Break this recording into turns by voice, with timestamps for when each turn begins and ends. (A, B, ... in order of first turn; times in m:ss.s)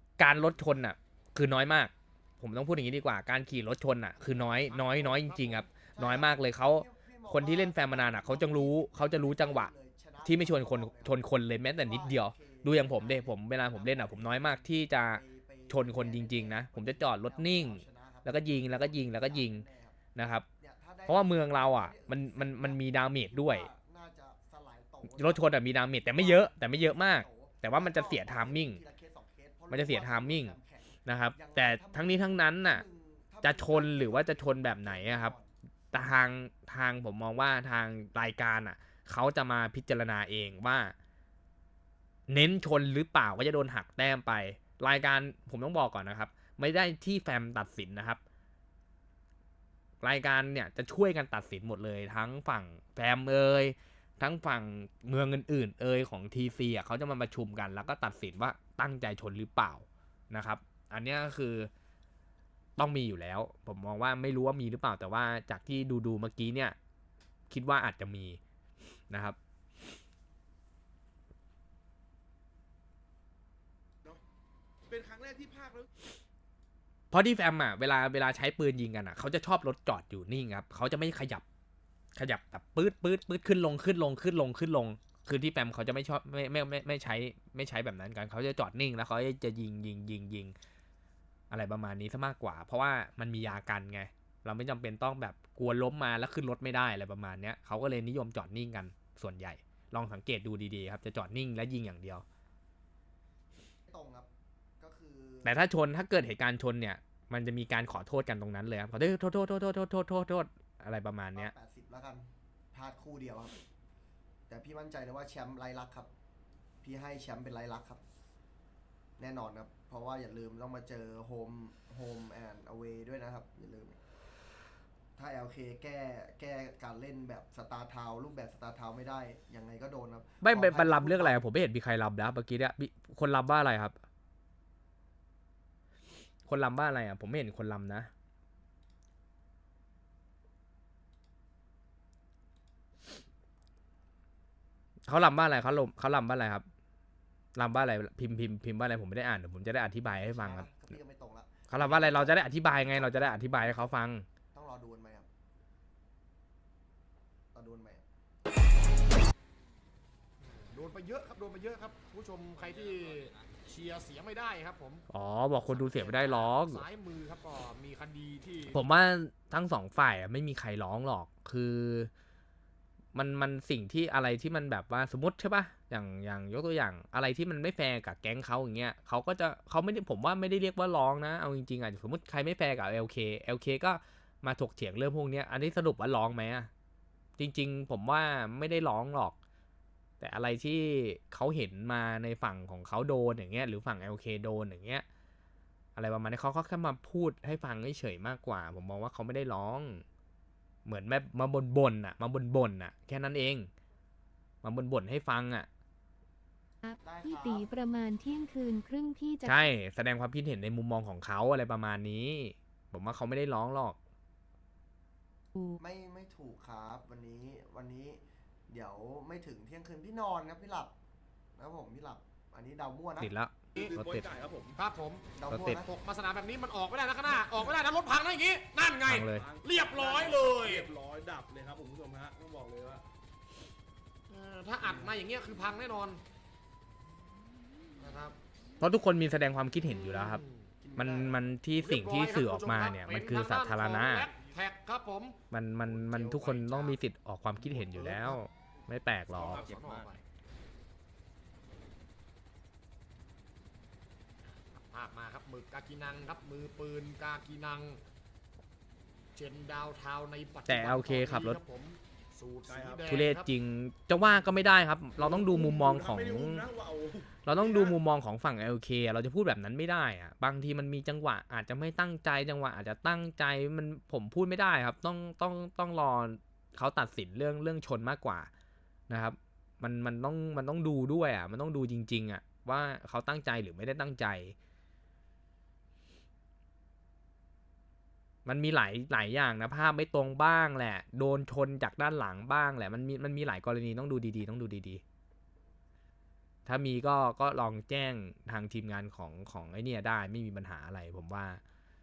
0:00.2-0:20.4 A
0:04.3-0:05.7 B
0:05.9-0:20.1 C
0:20.6-0:35.5 C
0:21.0-0:23.7 A
0:25.0-0:28.8 A
0:29.7-0:32.8 A
0:33.4-0:35.3 A
0:35.9-0:40.9 A
0:42.3-0:48.2 A
0:50.0-1:01.7 A
1:02.8-1:06.7 A
1:07.5-1:08.4 A
1:09.1-1:09.4 A
1:14.9-1:15.9 D
1:17.1-1:21.4 A
1:22.2-1:30.5 A
1:31.5-1:42.2 A
1:43.9-1:44.3 C
1:44.8-1:45.6 C
1:45.4-1:51.5 A
1:51.3-1:53.6 C
1:54.5-1:56.1 C
1:56.8-1:58.0 C
1:59.2-2:04.0 C
2:05.2-2:11.4 C
2:10.4-2:14.0 A
2:16.4-2:18.1 A
2:25.1-2:26.6 A
2:27.6-2:31.0 A
2:30.3-2:34.0 C
2:31.7-2:34.2 A
2:34.5-2:35.3 C
2:37.5-2:38.0 C
2:40.4-2:45.0 B
2:45.1-2:46.8 A
2:45.6-2:48.8 B
2:48.7-2:52.1 A
2:53.1-3:06.7 A
3:07.4-3:09.4 A
3:10.2-3:15.0 A
3:16.0-3:20.0 A
3:20.8-3:23.7 A
3:24.6-3:25.7 A
3:26.8-3:29.7 E
3:27.0-3:27.7 C
3:29.4-3:34.0 A
3:35.5-3:35.8 E
3:35.8-3:40.9 C
3:41.6-3:43.3 C
3:43.2-3:44.2 A
3:43.8-3:44.8 D
3:44.7-3:45.2 B
3:45.3-3:45.8 C
3:45.5-3:45.8 A
3:45.8-3:50.9 B
3:49.0-3:49.5 A
3:49.3-3:53.0 D
3:54.3-3:56.2 B
3:58.0-3:58.4 B
3:58.8-4:00.4 A
4:00.1-4:00.7 B
4:00.8-4:01.5 C
4:01.0-4:04.3 A
4:01.7-4:07.0 B
4:05.5-4:10.0 A
4:07.6-4:08.4 B
4:09.3-4:10.2 B
4:14.5-4:18.0 B
4:19.3-4:23.5 B
4:20.7-4:21.6 A
4:22.7-4:23.1 D
4:23.1-4:26.7 A
4:25.2-4:28.0 D
4:27.4-4:38.5 A
4:39.1-4:44.5 A
4:48.4-4:55.0 A
4:56.6-5:01.6 A